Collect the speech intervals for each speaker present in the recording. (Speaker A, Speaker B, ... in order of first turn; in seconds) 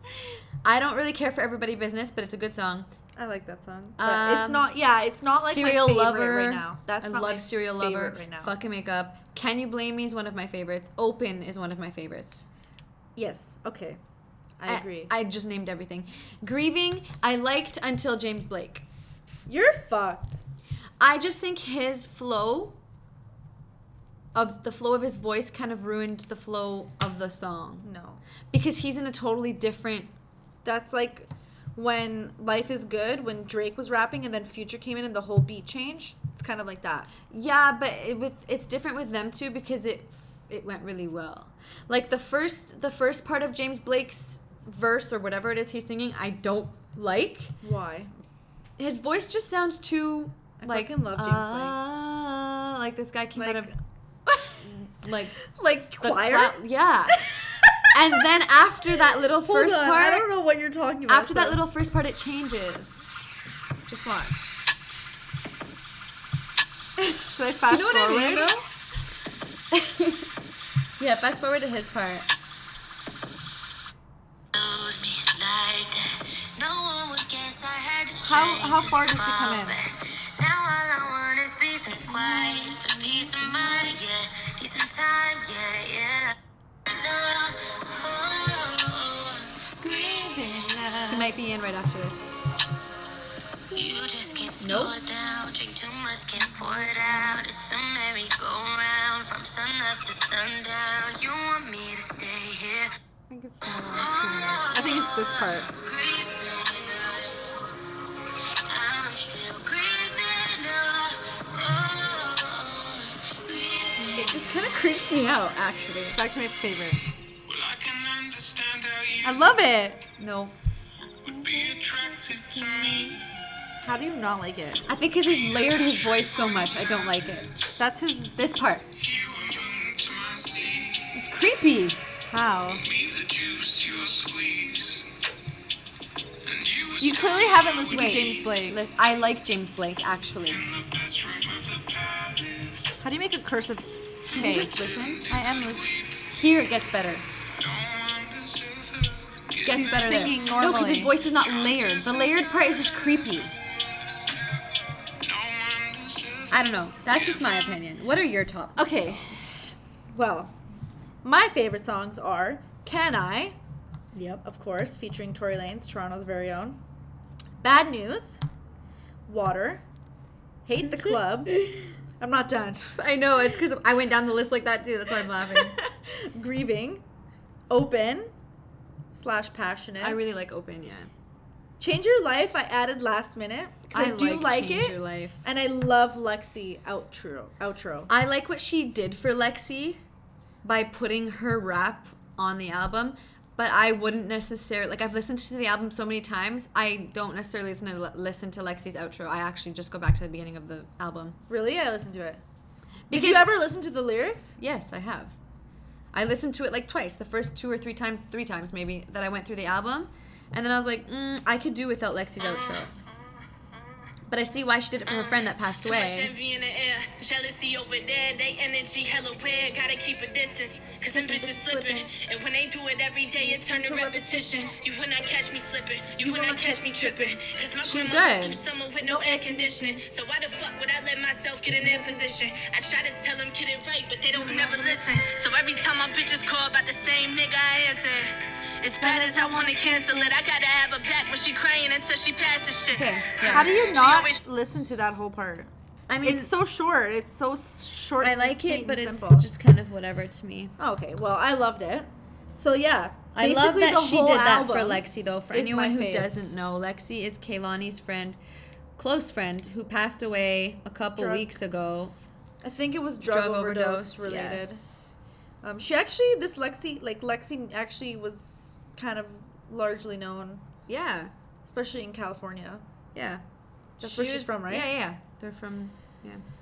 Speaker A: 0.6-2.9, 4.0-4.7, 5.4-12.5, 14.7-18.9, 21.0-22.8, 24.3-27.9, 28.5-30.1, 37.3-47.6, 48.8-53.7, 54.6-55.4, 56.0-57.2, 57.9-60.3, 61.1-63.1, 63.9-64.6, 67.0-68.7, 71.0-72.3, 91.1-92.4, 94.6-95.0, 114.1-116.3, 120.2-120.6, 124.9-127.7, 128.4-128.9, 131.1-132.0, 137.9-140.8, 144.3-147.2, 149.6-153.5, 156.5-159.5, 164.1-164.4, 170.8-171.9, 172.9-175.8, 180.0-181.1, 183.9-185.4, 188.1-190.0, 190.6-201.4, 203.1-203.5, 204.6-205.4, 206.1-212.9, 214.3-216.3, 227.8-228.6, 242.9-243.8, 246.1-246.5, 248.2-250.8, 253.3-258.4, 259.0-262.1, 263.2-264.8, 270.9-271.3, 273.1-273.4, 274.0-276.4
Speaker B: 3.2-8.5, 13.2-14.0, 14.6-15.1, 19.5-20.4, 27.8-28.2, 30.6-37.1, 47.6-48.1, 50.6-51.8, 53.4-53.7, 54.3-54.7, 55.5-56.6, 57.1-57.9, 59.1-61.6, 67.3-68.5, 78.2-79.8, 89.8-91.4, 103.3-105.7, 116.1-117.0, 119.2-120.0, 121.5-122.0, 123.8-124.8, 127.8-128.4, 132.3-133.0, 136.9-138.8, 143.0-145.9, 149.7-151.2, 158.8-160.6, 161.2-163.6, 164.4-166.8, 167.6-168.4, 169.3-169.8, 170.7-171.6, 172.2-172.9, 175.5-177.0, 177.7-178.3, 179.1-180.2, 181.8-188.1, 201.5-202.4, 203.1-204.6, 221.1-222.1, 223.4-224.3, 226.2-227.3, 234.3-235.0, 243.4-245.7, 246.2-249.5, 250.8-256.3, 261.2-261.6, 262.6-270.6, 271.6-272.8, 274.0-274.9
Speaker C: 74.5-86.3, 86.9-91.3, 93.7-102.9, 103.8-107.6, 108.7-114.3
Speaker D: 117.5-119.1, 129.3-130.8, 133.0-135.1, 136.5-136.9, 141.0-142.4, 147.6-149.1, 155.3-156.3
Speaker E: 215.1-244.4